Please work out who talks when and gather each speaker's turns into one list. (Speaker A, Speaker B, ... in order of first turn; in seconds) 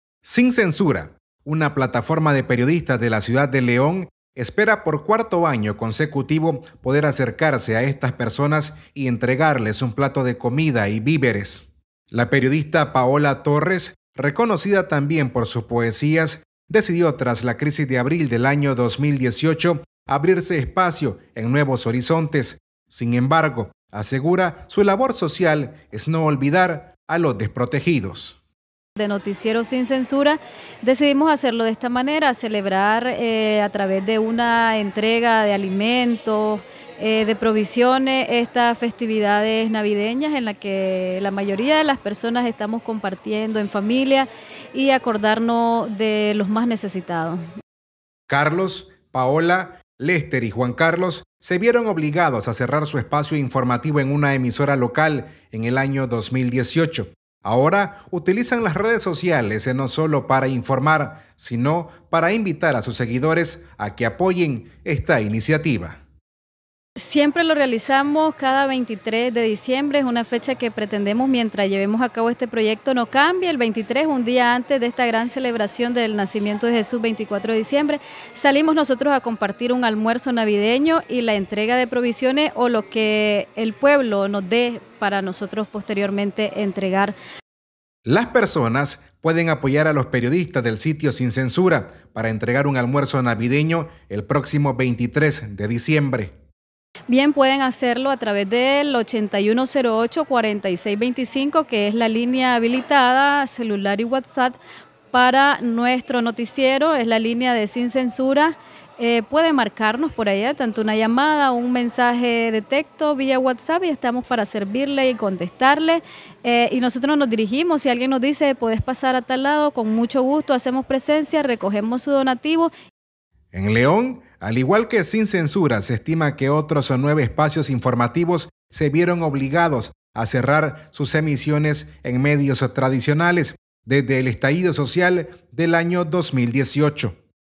Speaker A: 0.2-28.4, 48.3-66.0, 88.0-96.3, 123.5-137.2
Speaker B: 29.0-47.4, 67.0-87.1, 97.1-104.6, 105.1-122.7